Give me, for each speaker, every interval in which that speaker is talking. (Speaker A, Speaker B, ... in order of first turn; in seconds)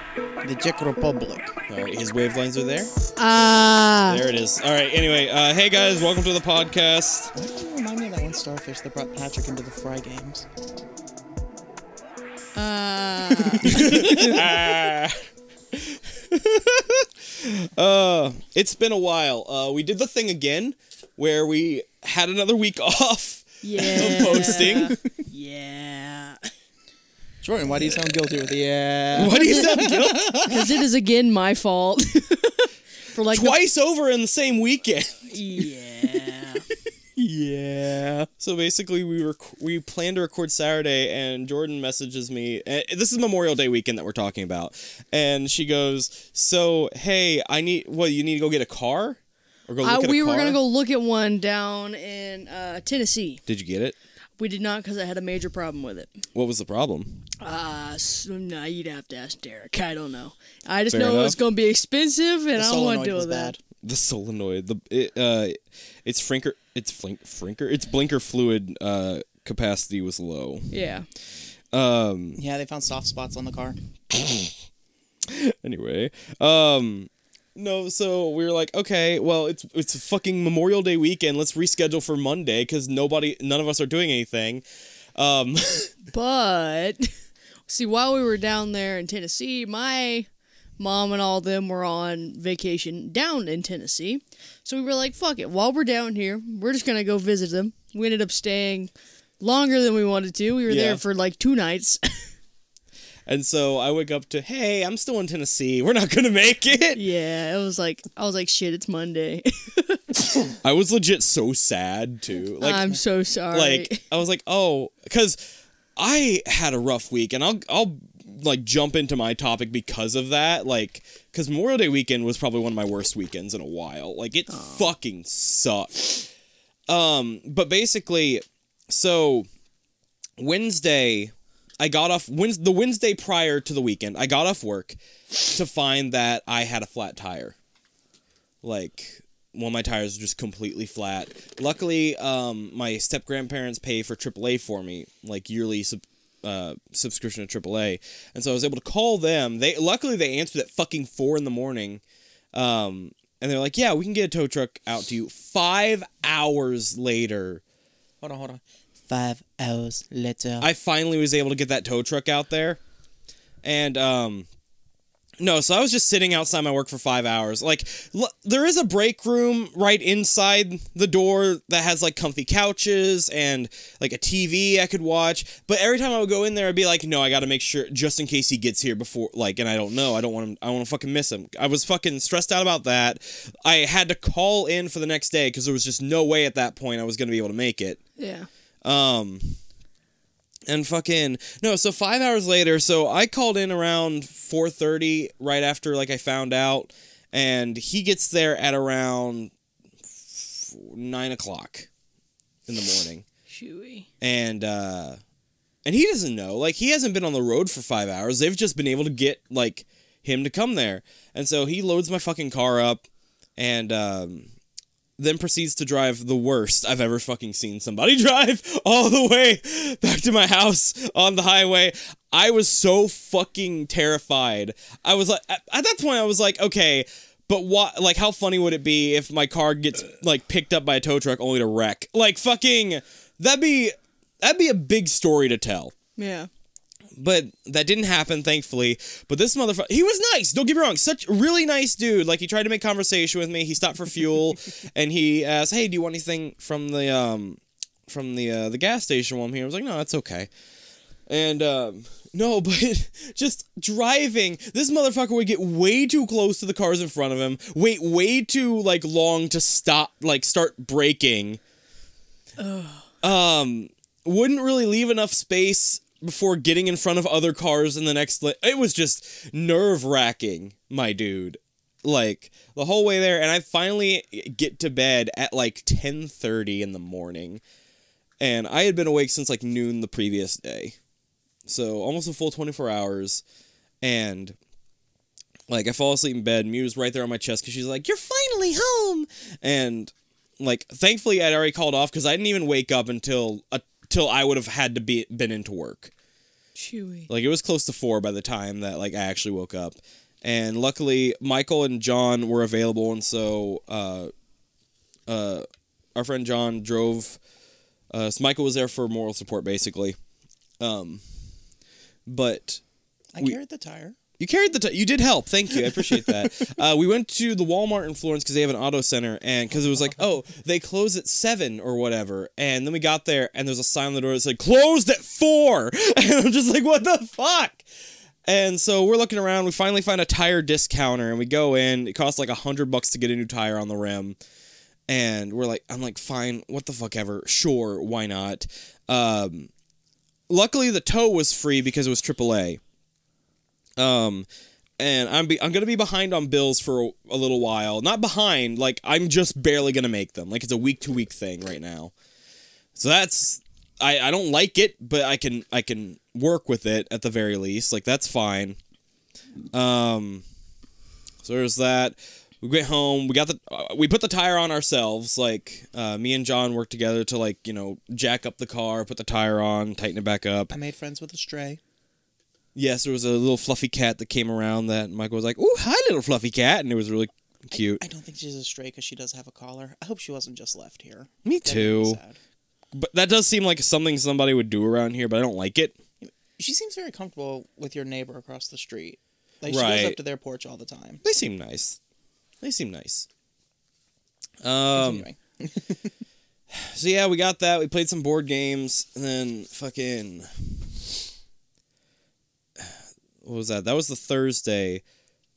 Speaker A: 0.4-1.6, 7.3-10.5, 13.6-14.4, 23.9-25.1, 27.4-30.6, 37.4-38.3, 62.5-63.6, 72.4-73.8, 158.2-160.7, 313.4-314.2, 316.0-316.2, 370.7-371.8, 377.7-382.4, 386.2-391.2, 394.9-396.1
Speaker B: 1.7-2.9, 4.1-7.3, 13.6-24.9, 29.1-30.6, 33.3-35.7, 38.3-50.6, 53.5-54.0, 56.3-57.2, 60.9-61.4, 63.8-70.7, 71.7-72.4, 74.1-74.5, 75.2-84.6, 85.2-86.0, 100.7-101.0, 103.3-107.0, 110.6-113.0, 113.5-126.3, 126.9-129.5, 130.4-137.6, 138.6-152.0, 152.5-157.6, 160.6-162.8, 163.6-164.5, 165.4-188.0, 188.8-189.6, 190.7-199.5, 200.2-201.9, 202.7-203.3, 204.2-205.2, 205.8-213.1, 213.6-214.5, 215.2-235.9, 237.2-250.5, 251.3-261.6, 263.2-277.6, 278.4-281.0, 281.7-283.4, 284.0-284.6, 285.7-296.1, 297.3-304.3, 305.3-307.4, 308.1-310.2, 310.8-311.2, 312.3-312.8, 314.4-327.8, 328.5-334.4, 335.1-339.7, 340.5-342.8, 344.0-344.5, 345.0-352.1, 352.9-358.8, 359.7-360.4, 361.4-370.7, 372.8-378.0, 381.4-382.2, 382.9-386.0, 389.7-390.2, 391.2-392.0, 392.6-393.3, 394.6-395.3, 396.7-400.9, 402.8-405.0
Speaker C: 3.2-4.2, 12.6-14.4, 23.6-26.4, 29.2-33.6, 35.3-36.7, 49.8-53.4, 54.4-56.1, 57.4-63.5, 70.7-71.1, 86.1-87.1, 87.7-90.3, 90.8-102.3, 107.0-110.0, 112.6-114.0, 124.5-124.9, 188.2-188.5, 203.5-204.1, 236.2-236.5, 262.6-263.1, 296.8-297.3